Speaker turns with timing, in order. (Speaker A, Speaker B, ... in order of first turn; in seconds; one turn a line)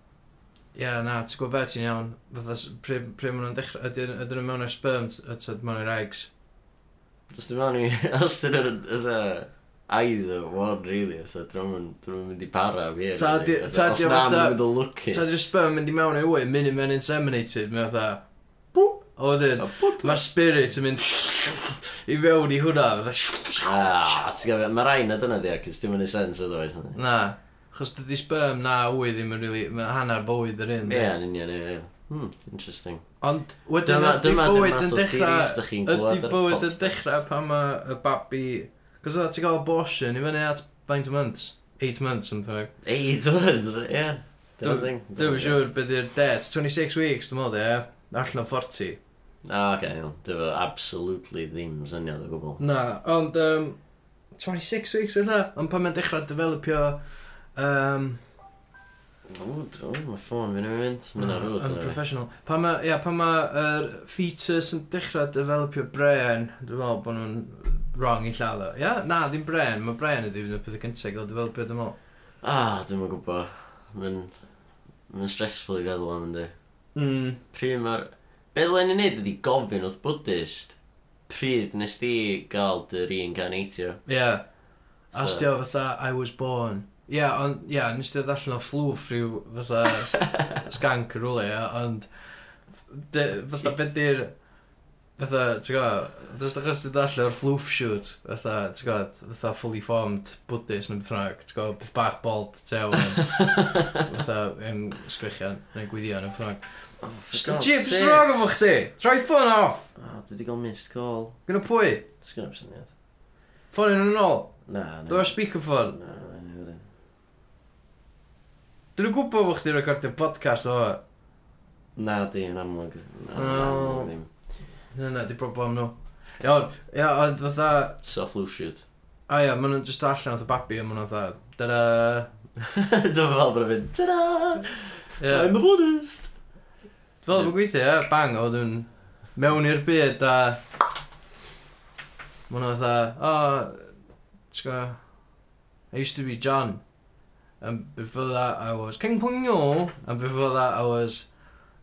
Speaker A: 0.7-6.3
Speaker B: 7.3-15.3
Speaker A: 13.1-24.3
Speaker B: 19.6-20.2
Speaker B: 23.6-27.0
Speaker A: 26.9-31.1
Speaker B: 30.8-33.0
Speaker A: 33.2-42.7
Speaker B: 33.8-37.0
Speaker B: 42.8-45.6
Speaker A: 44.6-49.0
Speaker B: 49.4-52.6
Speaker A: 52.6-53.8
Speaker A: 54.3-57.0
Speaker A: 57.5-58.2
Speaker B: 59.3-62.0
Speaker A: 61.2-72.0
Speaker B: 72.4-74.4
Speaker B: 75.1-76.5
Speaker A: 76.9-77.4
Speaker B: 77.5-80.8
Speaker B: 81.3-84.0
Speaker A: 84.0-84.5
Speaker A: 85.1-92.1
Speaker B: 85.1-85.5
Speaker A: 92.9-94.4
Speaker A: 95.2-103.4
Speaker B: 103.2-103.9
Speaker A: 104.0-109.9
Speaker B: 107.0-108.6
Speaker B: 110.0-111.4
Speaker A: 111.5-112.0
Speaker B: 112.2-112.9
Speaker A: 113.7-116.0
Speaker B: 114.7-116.8
Speaker A: 119.0-121.0
Speaker B: 122.0-124.3
Speaker A: 123.3-124.1
Speaker A: 124.9-128.0
Speaker B: 128.0-128.8
Speaker A: 129.3-132.3
Speaker B: 132.6-136.3
Speaker A: 135.2-135.6
Speaker A: 137.2-140.6
Speaker A: 142.5-143.9
Speaker A: 144.5-145.1
Speaker A: 145.9-146.8
Speaker A: 147.6-151.3